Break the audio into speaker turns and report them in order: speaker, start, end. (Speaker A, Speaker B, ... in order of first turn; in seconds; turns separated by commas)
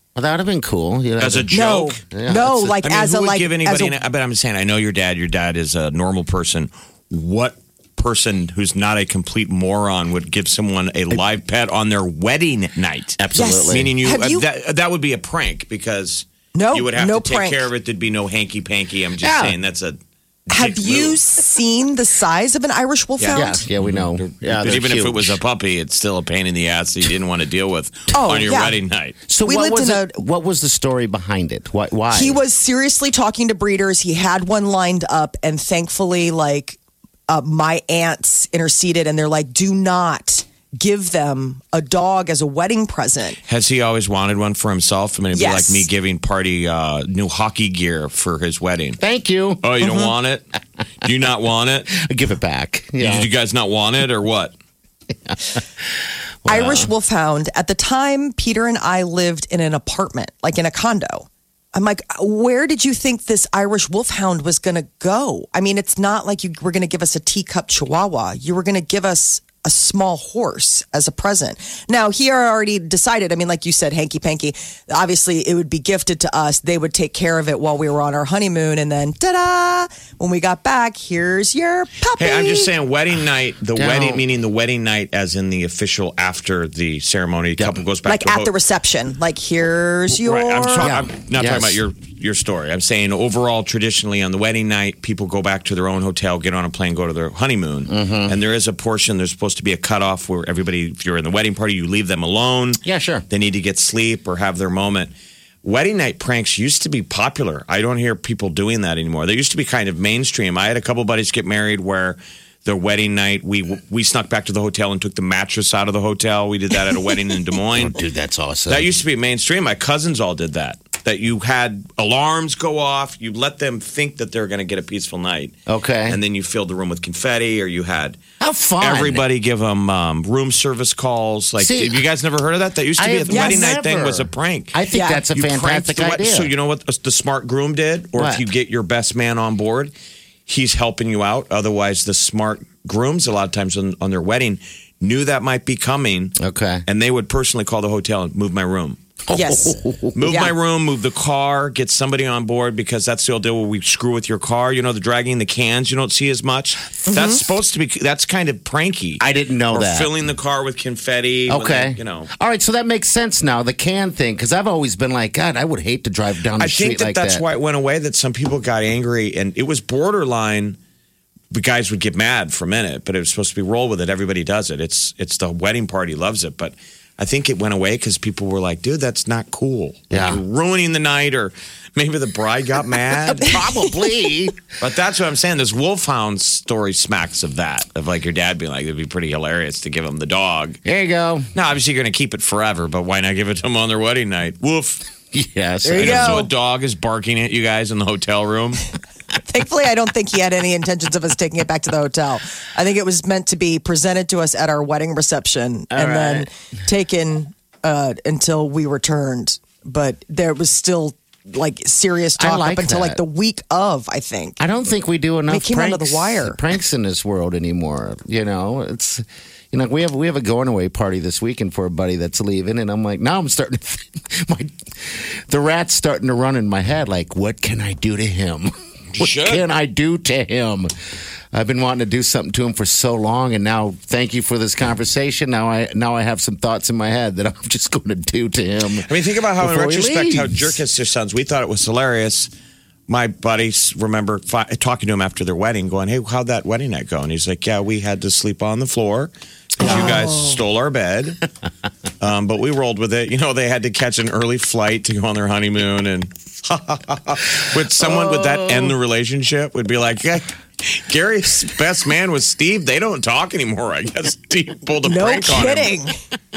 Speaker A: 0.1-2.8, Speaker B: 1.2-2.0, Speaker C: 1.5-3.9, Speaker B: 2.8-20.0, Speaker A: 13.2-13.9, Speaker C: 13.3-14.4, Speaker C: 16.5-17.6, Speaker A: 19.2-19.6, Speaker B: 20.5-21.2, Speaker C: 20.5-23.6, Speaker B: 23.2-29.2, Speaker A: 23.3-25.4, Speaker C: 28.1-28.8, Speaker A: 29.3-32.4, Speaker C: 29.4-30.2, Speaker C: 32.1-36.8, Speaker C: 37.3-43.4, Speaker B: 43.5-49.0, Speaker C: 45.3-45.9, Speaker A: 49.0-49.9, Speaker B: 49.6-50.5, Speaker B: 51.0-51.9, Speaker A: 51.9-53.3, Speaker B: 53.0-54.5, Speaker A: 55.2-55.6, Speaker A: 56.4-56.9, Speaker C: 56.5-82.7, Speaker B: 82.2-88.5, Speaker A: 83.7-84.2, Speaker A: 87.5-87.8, Speaker C: 88.0-90.9, Speaker B: 90.2-105.1, Speaker A: 90.8-91.8, Speaker A: 97.9-98.3, Speaker A: 102.8-103.2, Speaker B: 105.6-118.0, Speaker A: 117.7-119.0, Speaker B: 118.7-125.5, Speaker A: 125.7-126.2, Speaker B: 126.1-128.2, Speaker A: 128.4-129.2, Speaker B: 128.8-134.8, Speaker A: 131.6-132.0, Speaker A: 133.0-136.5, Speaker C: 133.3-133.6, Speaker C: 134.9-135.2, Speaker B: 135.3-139.9, Speaker A: 138.2-138.4, Speaker B: 140.5-149.0, Speaker A: 146.4-146.8, Speaker A: 149.3-150.3, Speaker C: 149.3-150.5, Speaker B: 150.1-162.3, Speaker C: 157.1-157.4, Speaker A: 159.2-160.1, Speaker A: 161.5-167.4, Speaker B: 166.6-170.8, Speaker B: 171.5-183.6, Speaker A: 180.1-180.4, Speaker A: 183.3-184.6, Speaker B: 184.8-190.8, Speaker A: 190.8-191.5, Speaker B: 191.5-195.1, Speaker A: 195.3-196.4, Speaker C: 195.8-196.5, Speaker B: 196.0-198.8, Speaker C: 199.4-214.6, Speaker A: 205.9-206.5, Speaker A: 212.4-213.2, Speaker A: 214.6-230.9, Speaker C: 215.5-216.6, Speaker B: 229.1-229.6, Speaker A: 231.5-240.8, Speaker B: 239.0-242.5, Speaker B: 243.1-251.4, Speaker A: 249.8-250.2, Speaker C: 249.8-250.5, Speaker B: 252.2-265.9, Speaker A: 258.0-258.9, Speaker C: 265.0-266.1